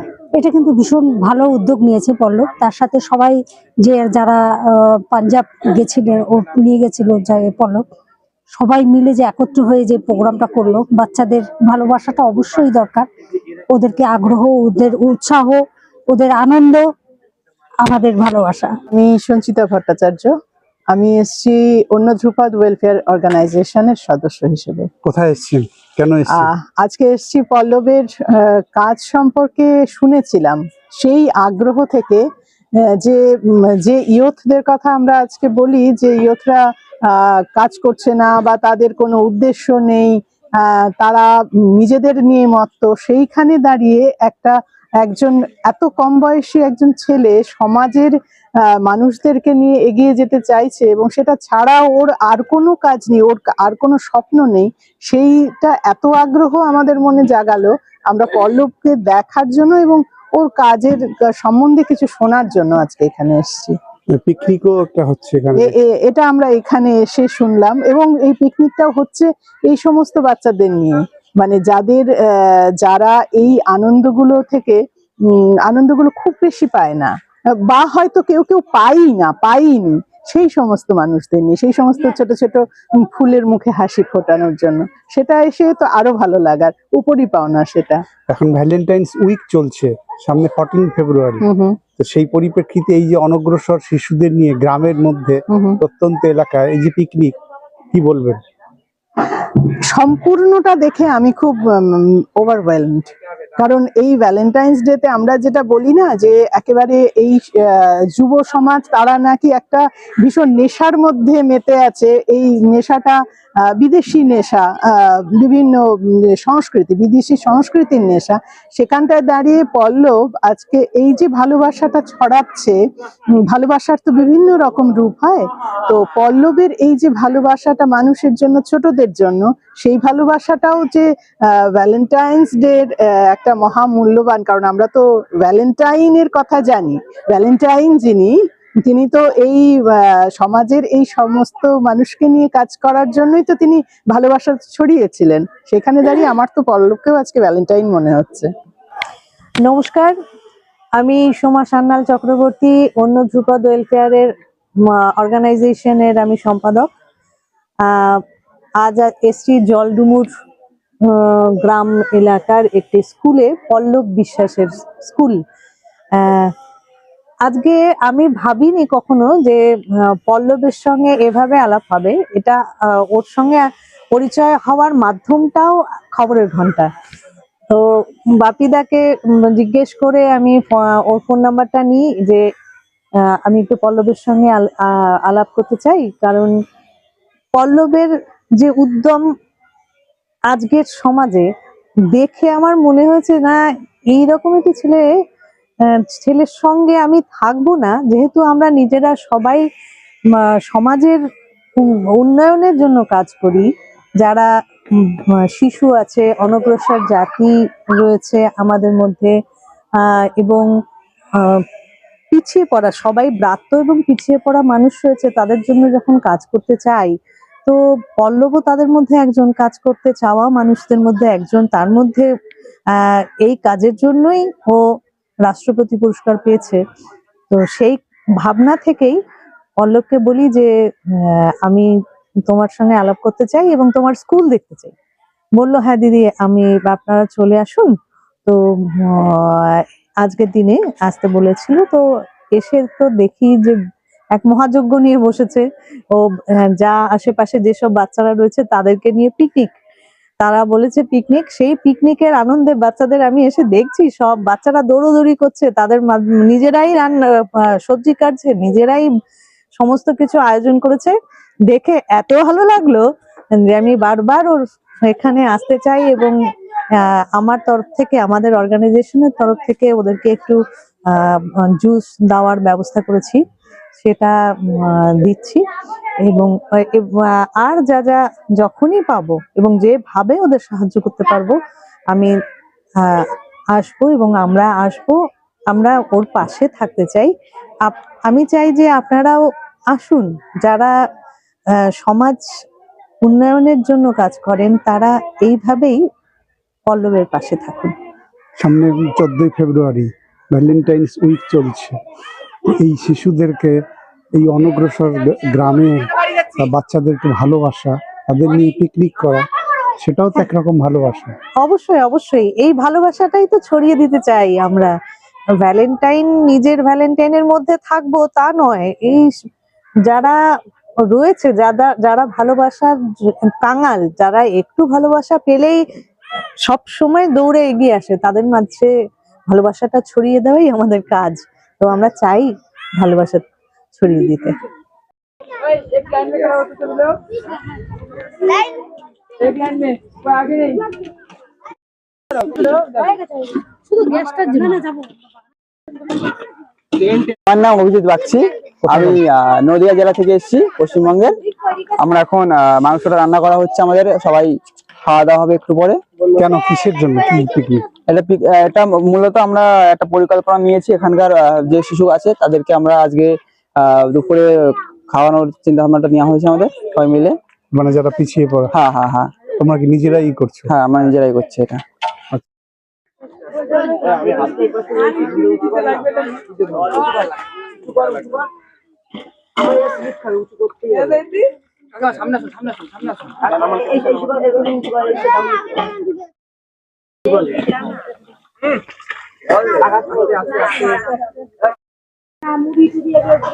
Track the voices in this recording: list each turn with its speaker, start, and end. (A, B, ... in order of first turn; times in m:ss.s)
0:00.3-0:07.8 A
0:08.5-0:13.1 A
0:13.7-0:16.8 A
0:17.8-0:18.7 A
0:18.9-0:20.3 B
0:20.9-0:24.9 B
0:25.0-0:26.5 C
0:26.3-0:32.2 B
0:33.8-0:41.2 B
0:41.8-0:48.1 B
0:48.8-1:03.8 B
1:04.1-1:05.7 C
1:05.6-1:14.8 B
1:15.7-1:17.1 B
1:17.6-1:28.0 B
1:28.3-1:31.4 C
1:31.4-1:31.8 B
1:32.0-1:37.3 C
1:37.9-1:38.4 C
1:39.9-1:53.2 B
1:53.8-1:55.8 B
1:56.4-2:02.8 B
2:03.5-2:28.5 B
2:29.6-2:30.1 D
2:31.0-2:34.3 D
2:34.9-2:36.9 D
2:37.9-2:38.2 D
2:38.8-2:40.3 D
2:41.1-2:45.4 D
2:46.2-2:46.5 D
2:47.4-2:49.6 D
2:50.3-2:52.6 D
2:53.1-2:56.9 D
2:58.4-3:02.4 D
3:03.4-3:06.5 D
3:07.6-3:09.2 D
3:10.5-3:11.5 D
3:12.1-3:13.6 D
3:14.1-3:15.0 D
3:16.0-3:19.6 D
3:20.7-3:21.2 D
3:21.8-3:23.7 D
3:24.2-3:24.5 D
3:25.0-3:29.3 D
3:30.0-3:30.7 D
3:32.3-3:37.1 D
3:37.7-3:42.3 D
3:43.4-3:44.8 D
3:45.4-3:46.8 D
3:47.5-3:49.2 D
3:49.8-3:50.7 D
3:51.2-3:51.9 D
3:52.5-3:54.9 D
3:55.6-3:57.9 D
3:58.5-4:02.0 D
4:02.6-4:03.8 D
4:04.3-4:05.6 D
4:06.5-4:09.7 D
4:10.4-4:17.2 D
4:17.8-4:19.1 D
4:19.8-4:21.1 D
4:21.7-4:23.0 D
4:23.6-4:26.4 D
4:27.3-4:30.6 D
4:31.1-4:33.4 D
4:34.0-4:35.6 D
4:36.3-4:41.6 D
4:43.8-4:45.2 D
4:45.7-4:47.3 D
4:47.8-4:49.4 D
4:49.9-4:50.9 D
4:52.0-4:52.4 D
4:53.2-4:56.0 D
4:56.9-4:57.9 D
4:58.6-5:02.0 C
5:02.8-5:03.8 C
5:04.4-5:09.4 C
5:10.0-5:11.4 C
5:11.6-5:14.9 D
5:15.6-5:19.3 D
5:20.0-5:20.3 D
5:21.1-5:22.9 D
5:23.6-5:25.8 D
5:26.6-5:28.9 D
5:29.5-5:33.4 D
5:34.0-5:34.5 D
5:47.5-5:51.3 E
5:52.0-5:54.5 E
5:55.0-5:56.0 E
5:56.4-5:57.8 C
5:58.1-6:03.3 E
6:03.8-6:04.5 E
6:05.1-6:07.3 E
6:07.7-6:08.8 C
6:08.8-6:09.3 E
6:09.5-6:10.7 C
6:10.7-6:11.8 E